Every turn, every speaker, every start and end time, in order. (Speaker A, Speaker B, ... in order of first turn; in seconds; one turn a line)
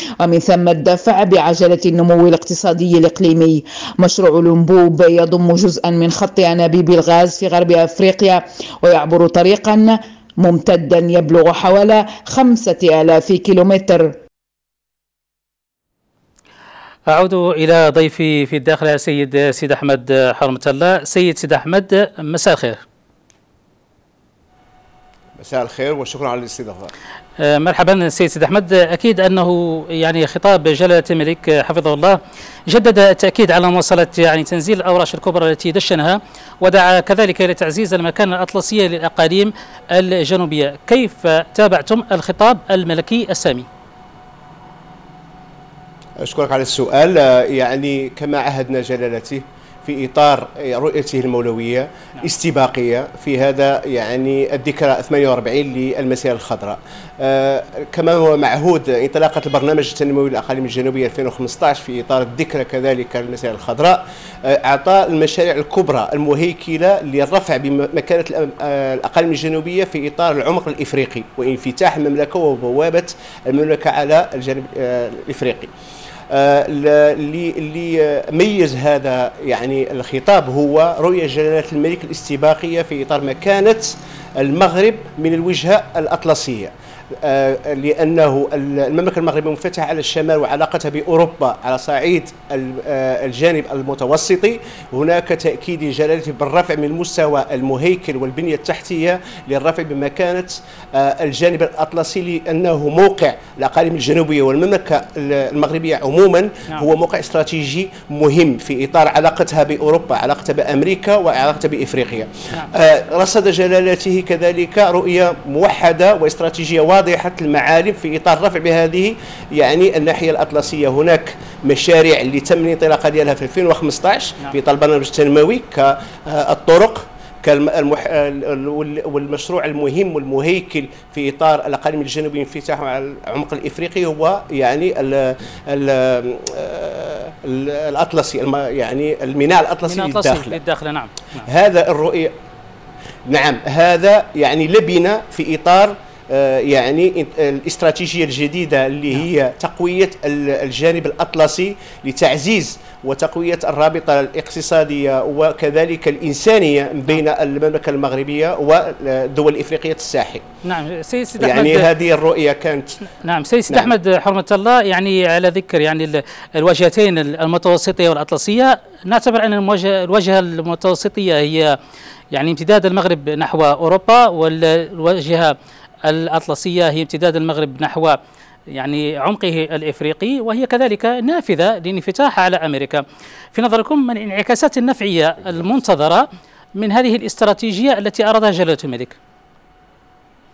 Speaker A: 0.2-14.1
Speaker B: 17.1-22.8
Speaker C: 25.4-26.9
Speaker B: 27.4-32.2
Speaker B: 32.7-43.7
Speaker C: 46.2-75.7
Speaker C: 76.3-140.6
Speaker B: 139.8-141.5
Speaker C: 141.5-142.3
Speaker C: 143.3-160.4
Speaker B: 160.6-161.9
Speaker C: 161.4-162.9
Speaker B: 163.2-171.7
Speaker B: 172.3-175.5
Speaker B: 176.1-178.2
Speaker B: 178.7-183.0
Speaker B: 183.5-186.2
Speaker B: 186.8-189.2